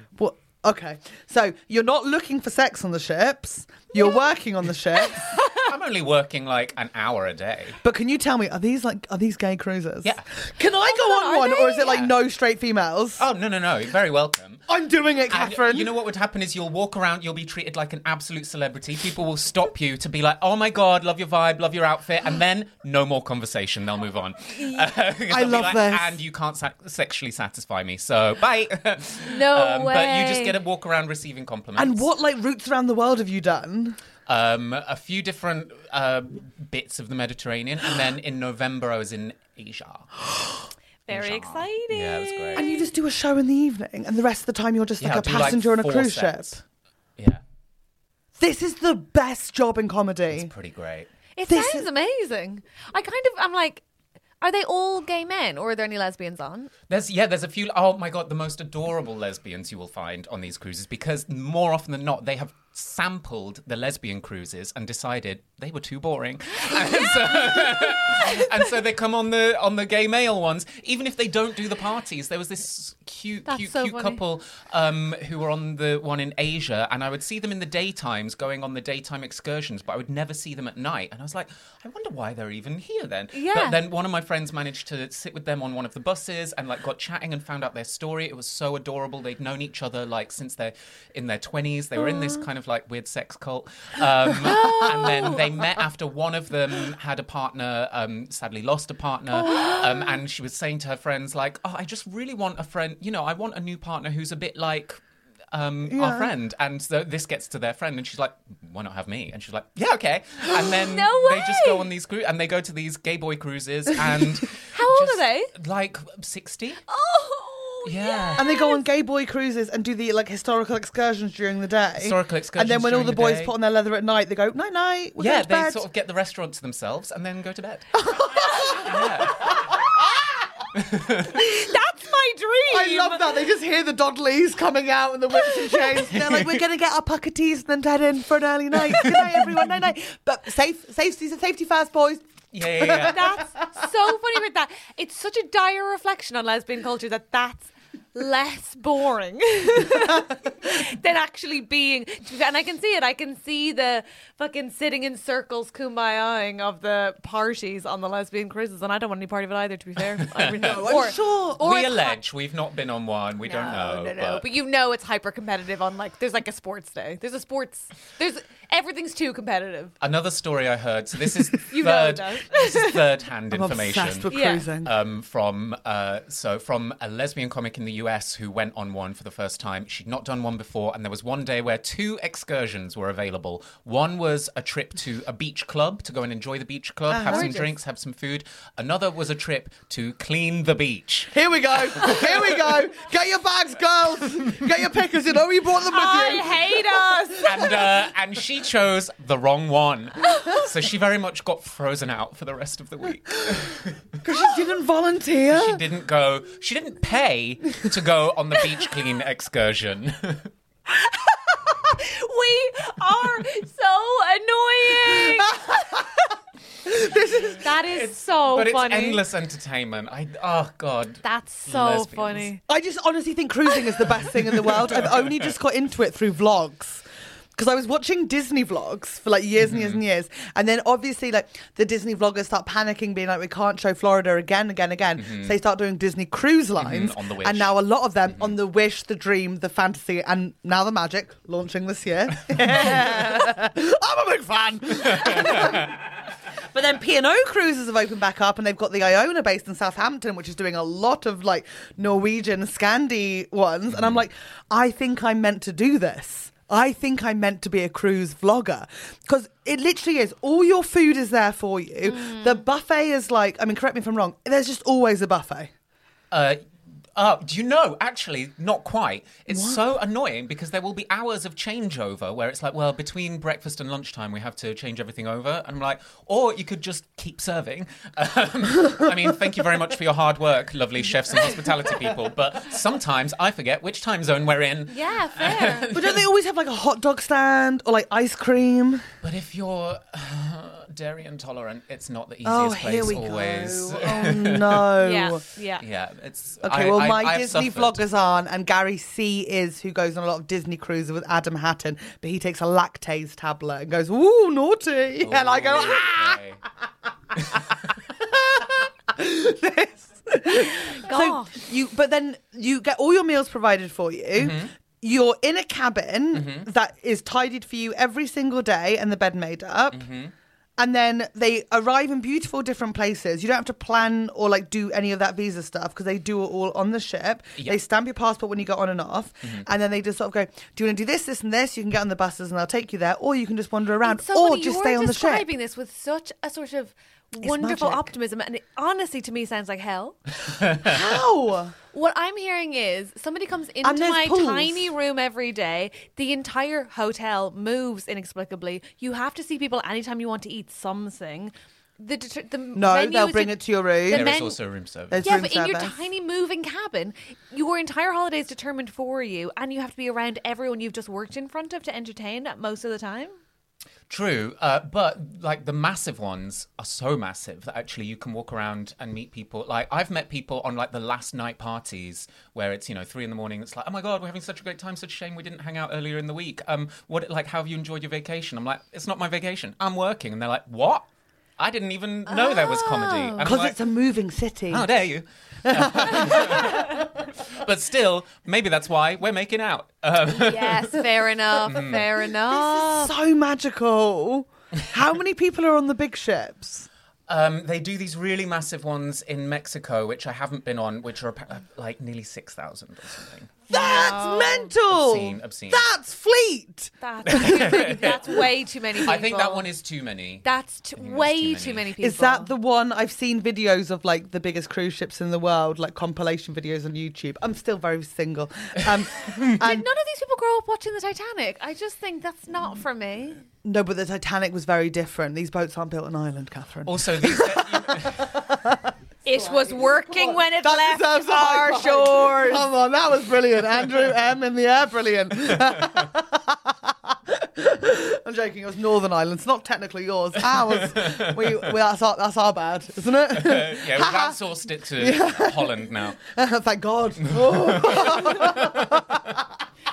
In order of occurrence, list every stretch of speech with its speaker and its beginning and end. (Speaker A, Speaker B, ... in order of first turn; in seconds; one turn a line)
Speaker A: 0.2-5.3
Speaker B: 5.5-7.8
Speaker A: 7.8-13.2
Speaker C: 10.8-12.1
Speaker B: 13.2-14.6
Speaker A: 14.7-16.0
Speaker B: 15.3-32.1
Speaker A: 25.3-26.2
Speaker C: 29.3-30.6
Speaker A: 31.8-34.0
Speaker B: 34.3-40.1
Speaker C: 41.1-42.9
Speaker B: 41.1-42.7
Speaker A: 42.5-46.6
Speaker B: 45.0-46.6
Speaker A: 48.4-50.5
Speaker B: 50.3-51.1
Speaker C: 51.4-53.8
Speaker A: 51.5-51.9
Speaker C: 54.4-56.7
Speaker B: 56.9-105.0
Speaker C: 66.8-68.5
Speaker C: 73.5-74.2
Speaker C: 83.3-83.8
Speaker C: 94.5-95.4
Speaker C: 99.4-100.1
Speaker B: 105.5-116.8
Speaker A: 105.9-106.3
Speaker C: 110.5-111.9
Speaker C: 114.7-115.5
Speaker C: 116.9-118.8
Speaker B: 117.8-118.5
Speaker A: 118.3-125.9
Speaker B: 122.0-123.5
Speaker B: 125.2-129.6
Speaker A: 128.0-130.2
Speaker B: 130.8-131.3
Speaker C: 131.3-133.2
Speaker A: 132.7-143.7
Speaker C: 135.5-135.8
Speaker B: 136.2-136.6
Speaker B: 142.5-143.3
Speaker C: 143.1-162.2
Speaker B: 160.1-164.4
Speaker A: 160.6-161.6
Speaker C: 163.4-169.9
Speaker B: 170.0-174.3
Speaker C: 171.7-173.0
Speaker A: 173.5-174.9
Speaker C: 174.3-174.7
Speaker B: 174.8-192.4
Speaker A: 187.1-187.7
Speaker C: 187.3-187.7
Speaker A: 191.3-197.7
Speaker C: 195.9-197.8
Speaker B: 197.4-204.2
Speaker C: 200.2-200.6
Speaker A: 204.2-205.8
Speaker B: 205.5-210.5
Speaker C: 211.1-216.0
Speaker A: 215.1-215.8
Speaker A: 216.8-217.7
Speaker C: 217.6-219.2
Speaker B: 217.8-222.5
Speaker C: 221.2-222.6
Speaker A: 222.7-227.0
Speaker B: 224.6-225.1
Speaker A: 227.6-246.0
Speaker B: 229.7-230.0
Speaker B: 235.2-235.6
Speaker B: 236.8-237.8
Speaker B: 242.5-243.0
Speaker B: 245.1-246.0
Speaker A: 246.7-265.7
Speaker B: 253.9-254.2
Speaker C: 262.1-262.6
Speaker B: 266.3-266.6
Speaker B: 267.1-286.3
Speaker A: 269.5-269.8
Speaker C: 284.9-285.9
Speaker A: 285.9-289.0
Speaker B: 289.2-294.9
Speaker A: 292.4-295.4
Speaker C: 295.0-295.8
Speaker B: 295.8-298.0
Speaker A: 296.6-306.4
Speaker B: 305.2-306.6
Speaker B: 307.4-307.8
Speaker A: 308.2-320.1
Speaker C: 310.9-311.6
Speaker B: 314.4-314.7
Speaker B: 316.3-316.7
Speaker B: 319.9-320.3
Speaker A: 320.8-335.5
Speaker C: 334.0-340.2
Speaker A: 337.4-338.1
Speaker B: 340.5-340.9
Speaker A: 340.9-341.8
Speaker C: 341.9-354.6
Speaker A: 343.8-344.9
Speaker A: 352.8-354.3
Speaker B: 354.1-355.3
Speaker A: 355.1-356.0
Speaker C: 355.1-363.4
Speaker B: 364.1-381.1
Speaker B: 381.6-383.8
Speaker C: 382.3-383.5
Speaker A: 383.4-384.9
Speaker B: 384.7-391.1
Speaker A: 385.6-387.0
Speaker C: 390.3-393.1
Speaker B: 391.6-392.1
Speaker A: 392.5-396.9
Speaker B: 397.3-403.6
Speaker A: 403.7-407.8
Speaker C: 403.7-404.7
Speaker B: 404.9-405.9
Speaker C: 407.0-409.7
Speaker B: 407.3-408.4
Speaker B: 409.1-410.4
Speaker C: 410.4-412.5
Speaker B: 411.0-411.9
Speaker A: 412.0-419.9
Speaker C: 419.6-423.4
Speaker A: 423.6-444.4
Speaker B: 426.9-428.4
Speaker C: 429.2-432.7
Speaker B: 440.5-441.6
Speaker B: 443.3-446.2
Speaker A: 444.9-449.4
Speaker B: 447.3-448.8